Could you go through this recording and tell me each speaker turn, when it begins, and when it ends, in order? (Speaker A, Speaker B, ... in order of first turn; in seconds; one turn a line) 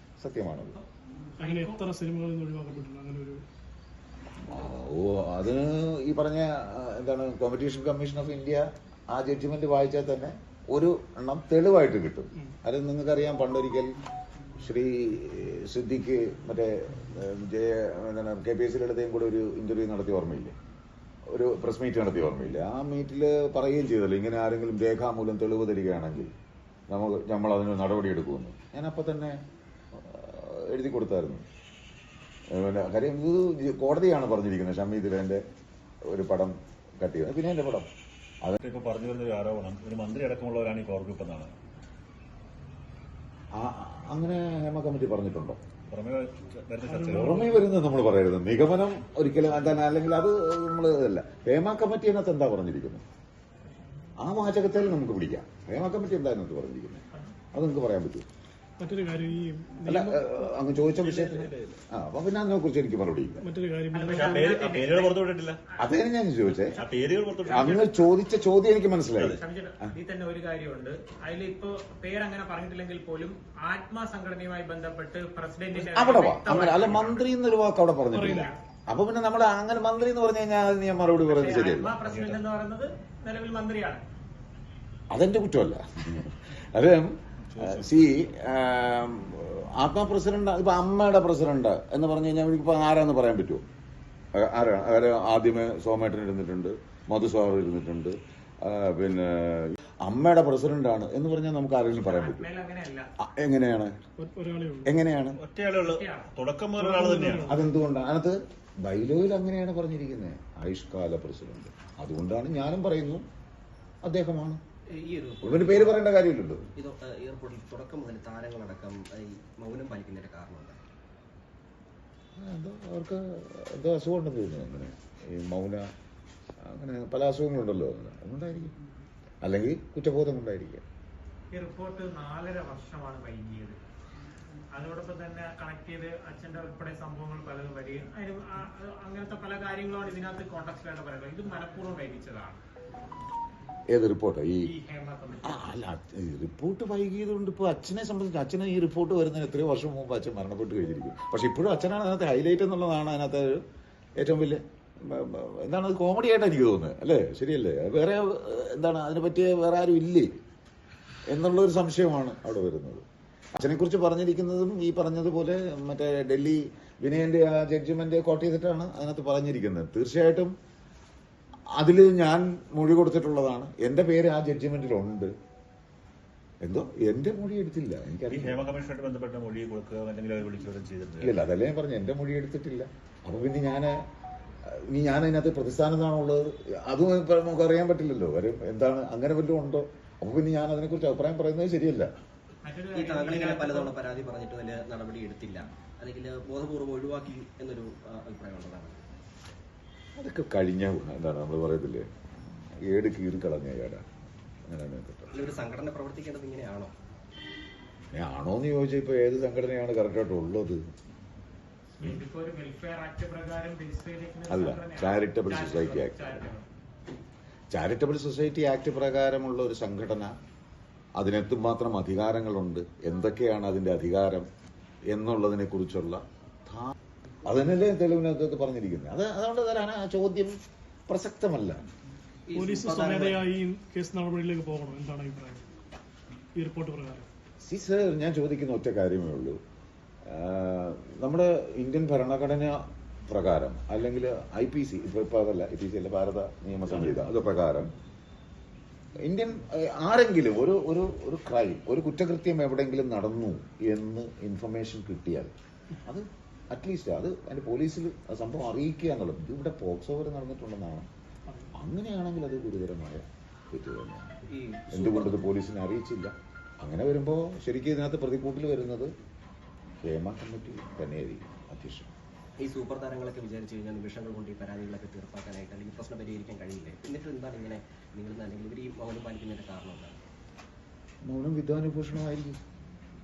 Speaker A: 0.2-0.8
Speaker B: 1.4-1.8
Speaker C: 1.4-3.4
Speaker A: 4.4-13.9
Speaker A: 14.6-20.6
Speaker A: 21.3-26.3
Speaker A: 26.9-29.4
Speaker A: 29.9-31.5
Speaker A: 32.5-35.4
Speaker A: 36.1-37.9
Speaker D: 38.6-41.5
Speaker A: 43.5-45.6
Speaker D: 45.9-47.4
Speaker C: 46.9-47.7
Speaker A: 47.1-53.0
Speaker A: 54.2-58.2
Speaker C: 58.8-60.3
Speaker A: 59.9-63.4
Speaker D: 61.0-61.8
Speaker C: 63.4-64.5
Speaker B: 63.9-65.9
Speaker D: 64.1-65.6
Speaker A: 65.8-66.8
Speaker D: 66.5-67.8
Speaker B: 67.5-67.9
Speaker A: 67.5-69.4
Speaker B: 69.4-77.3
Speaker A: 75.9-82.0
Speaker C: 78.1-78.5
Speaker B: 78.2-78.6
Speaker B: 81.2-84.0
Speaker D: 82.0-82.4
Speaker A: 85.1-93.6
Speaker D: 87.5-88.0
Speaker A: 94.3-102.5
Speaker B: 102.0-103.1
Speaker A: 103.2-104.0
Speaker C: 104.2-105.0
Speaker A: 104.8-105.4
Speaker D: 105.4-107.6
Speaker B: 105.7-106.3
Speaker C: 106.8-107.6
Speaker A: 107.5-113.2
Speaker A: 114.0-114.6
Speaker E: 114.9-116.1
Speaker A: 115.4-116.7
Speaker E: 116.8-120.8
Speaker A: 122.4-125.9
Speaker A: 126.6-128.7
Speaker A: 129.4-130.8
Speaker B: 131.5-133.8
Speaker B: 134.7-142.6
Speaker A: 143.9-144.7
Speaker B: 144.6-145.7
Speaker A: 145.4-153.6
Speaker A: 154.2-160.3
Speaker A: 161.3-170.5
Speaker A: 171.8-175.3
Speaker A: 176.6-178.7
Speaker D: 178.3-181.4
Speaker A: 181.2-184.0
Speaker A: 184.7-192.1
Speaker B: 192.6-193.9
Speaker E: 192.9-199.0
Speaker A: 200.2-202.1
Speaker A: 202.8-204.1
Speaker A: 204.7-205.5
Speaker E: 205.3-206.9
Speaker A: 208.1-210.8
Speaker B: 212.0-216.7
Speaker A: 214.5-216.5
Speaker A: 217.7-220.3
Speaker A: 221.2-224.5
Speaker A: 225.1-226.9
Speaker A: 227.4-230.6
Speaker A: 231.1-231.8
Speaker E: 232.5-233.4
Speaker C: 232.5-235.7
Speaker C: 236.6-237.3
Speaker A: 237.6-239.6
Speaker A: 240.3-247.9
Speaker A: 249.2-255.5
Speaker A: 256.0-261.1
Speaker C: 261.5-261.7
Speaker A: 261.7-264.4
Speaker E: 264.5-265.4
Speaker A: 264.9-269.1
Speaker A: 270.0-272.1
Speaker E: 272.6-280.1
Speaker A: 281.2-282.6